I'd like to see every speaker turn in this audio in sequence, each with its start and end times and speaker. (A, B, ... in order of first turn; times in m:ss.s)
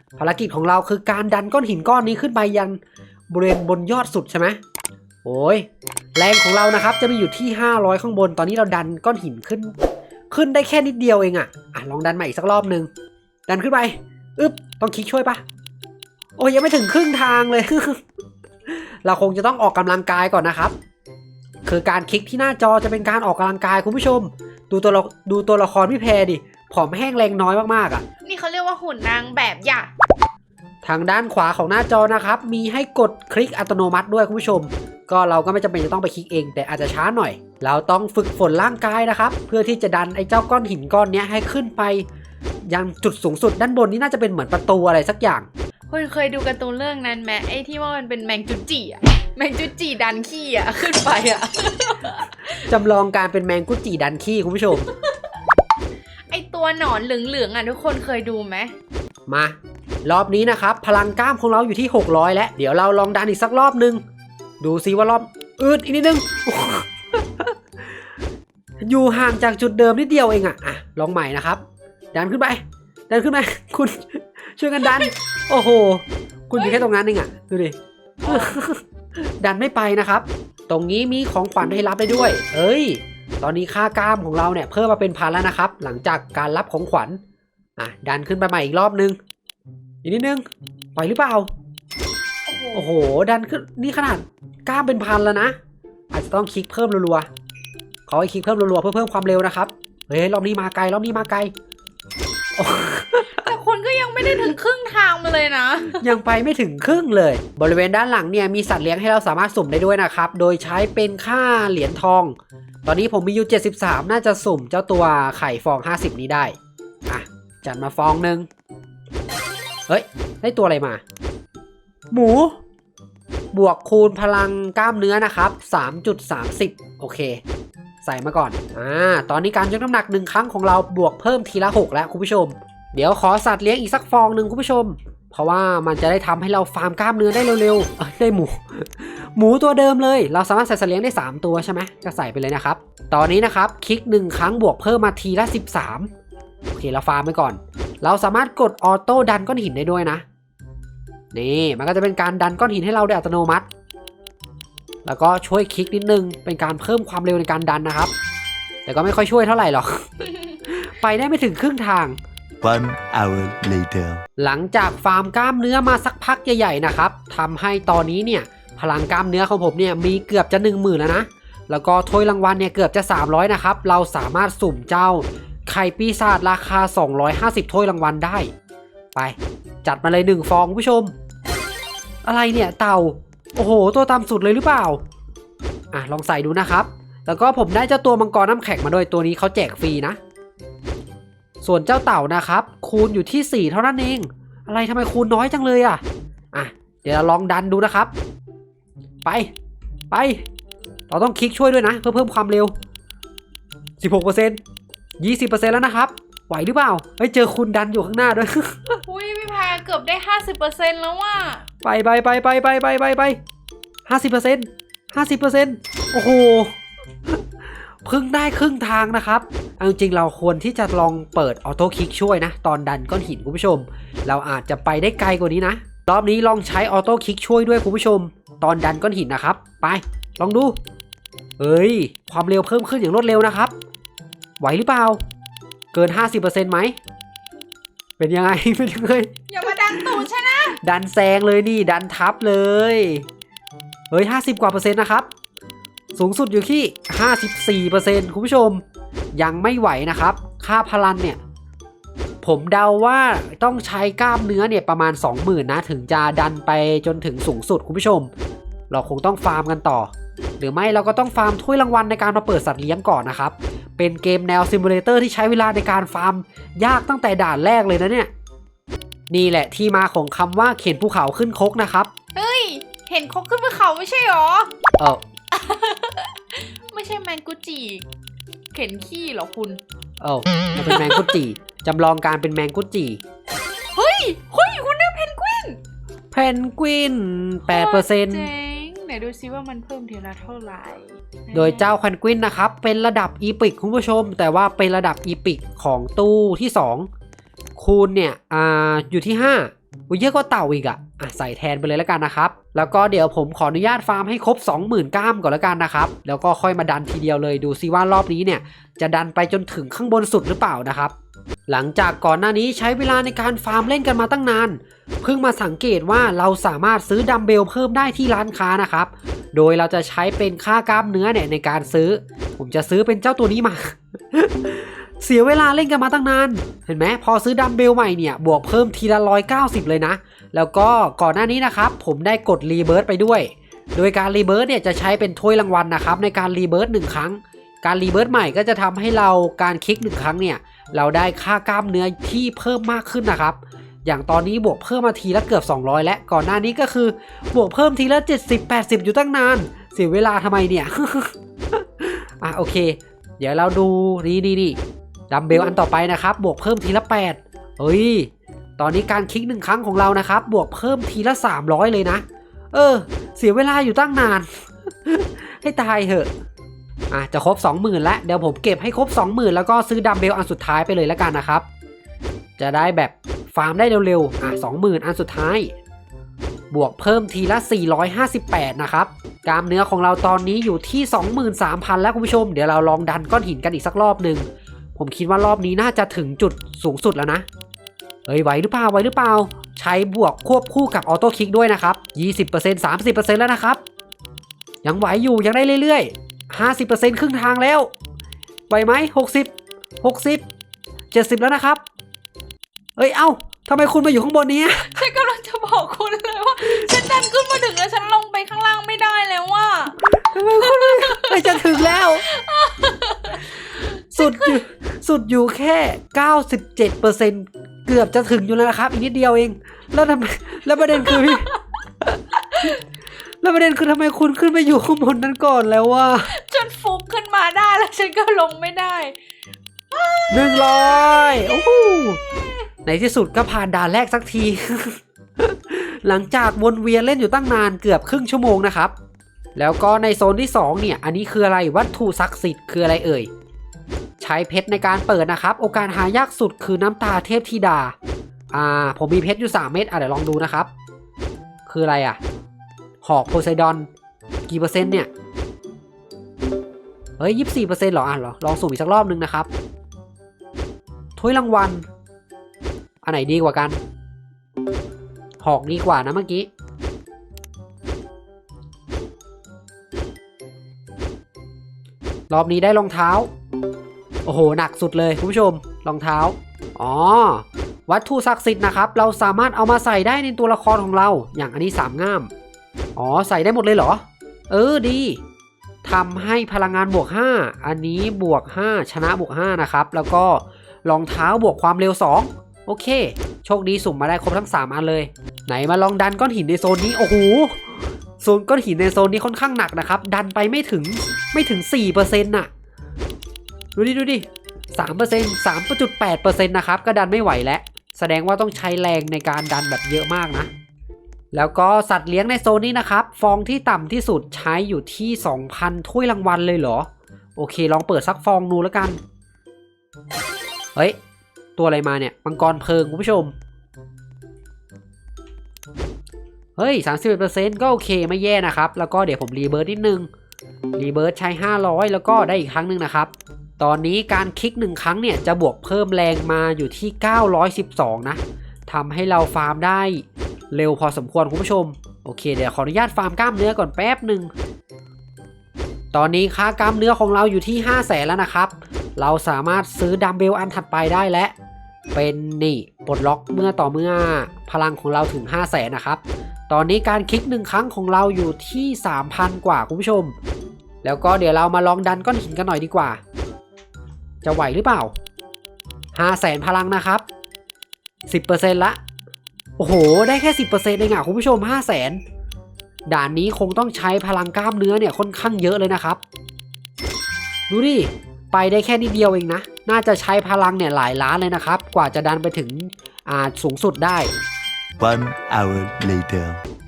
0:00.2-0:04.6 A
0:05.2-0:09.7 A
0:10.3-0:12.9 A
0:13.5-0:15.4 A
0:16.4-0:18.0 A
0:18.7-0:20.7 A
0:21.6-0:28.0 A
0:28.2-0:29.9 B
0:30.8-0:42.0 A
0:42.6-0:45.5 A
0:45.9-0:52.6 B
0:52.6-0:54.9 A
0:54.8-0:55.1 B
0:56.3-0:58.7 B
0:59.3-1:04.0 A
1:04.6-1:07.5 A
1:08.8-1:11.6 A
1:12.1-1:27.2 A
1:18.2-1:18.6 B
1:27.8-1:29.2 A
1:30.0-1:30.4 A
1:31.0-1:31.5 A
1:32.5-1:32.9 B
1:32.7-1:35.5 A
1:36.1-1:37.3 A
1:38.0-1:41.5 A
1:42.6-1:43.5 A
1:43.2-1:46.0 B
1:46.0-1:56.5 A
1:57.1-1:58.5 A
1:59.9-2:01.0 A
2:02.1-2:02.6 A
2:03.5-2:07.4 A
2:08.0-2:26.1 A
2:26.7-2:30.2 A
2:31.3-2:33.6 A
2:35.0-2:38.1 A
2:38.8-2:42.2 A
2:42.6-2:44.2 C
2:44.4-2:58.5 A
2:59.1-3:01.1 A
3:02.2-3:05.0 A
3:05.9-3:10.2 A
3:11.6-3:16.0 A
3:16.5-3:18.1 A
3:19.2-3:19.5 A
3:20.1-3:20.4 A
3:21.1-3:22.7 A
3:24.0-3:24.6 A
3:25.2-3:29.0 A
3:29.0-3:31.6 B
3:31.8-3:33.4 A
3:34.1-3:36.7 A
3:38.0-3:50.7 A
3:51.6-3:53.7 A
3:54.6-3:55.2 A
3:55.9-3:57.0 A
3:58.2-4:03.2 A
3:59.5-4:00.8 B
4:04.1-4:05.3 A
4:06.1-4:08.8 A
4:09.3-4:11.4 A
4:12.4-4:18.3 A
4:18.9-4:28.3 A
4:29.3-4:32.1 A
4:32.3-4:34.7 B
4:35.5-4:38.0 B
4:38.7-4:39.8 B
4:40.2-4:43.2 A
4:40.9-4:41.4 B
4:43.9-4:45.8 B
4:46.3-4:48.5 A
4:47.7-4:51.9 B
4:51.5-4:57.1 A
4:57.8-5:11.1 A
5:11.7-5:54.8 A
5:55.3-6:06.3 A
6:07.1-6:11.6 A
6:12.6-6:15.7 A
6:16.7-6:24.4 A
6:25.0-6:27.4 A
6:28.3-6:33.8 A
6:34.8-6:37.9 A
6:38.7-6:39.5 A
6:40.0-6:40.4 A
6:41.1-6:41.8 A
6:43.0-6:45.0 A
6:44.8-6:54.6 B
6:50.0-6:52.3 A
6:54.1-7:02.8 A
7:00.9-7:01.6 B
7:02.5-7:02.8 B
7:03.4-7:06.3 A
7:06.2-7:09.1 B
7:09.9-7:11.5 B
7:10.3-7:12.2 A
7:12.8-7:18.9 A
7:19.6-7:23.3 A
7:24.2-7:27.9 A
7:28.5-7:30.7 A
7:31.7-7:32.2 A
7:33.0-7:33.9 A
7:34.5-7:35.1 A
7:37.2-7:39.5 A
7:41.2-7:41.8 A
7:43.0-7:43.8 A
7:45.4-7:46.5 A
7:52.3-7:53.3 A
7:54.2-8:02.3 A
8:03.0-8:05.2 A
8:05.8-8:22.5 A
8:23.8-8:30.5 A
8:31.3-8:39.0 A
8:41.6-8:43.3 A
8:46.6-8:50.1 A
8:50.8-9:04.3 A
9:05.9-9:11.3 A
9:11.9-9:20.1 A
9:20.8-9:23.0 A
9:24.2-9:24.9 A
9:25.9-9:27.0 A
9:28.1-9:28.8 A
9:29.6-9:32.0 A
9:32.9-9:36.0 A
9:37.5-9:44.1 A
9:44.8-9:46.4 C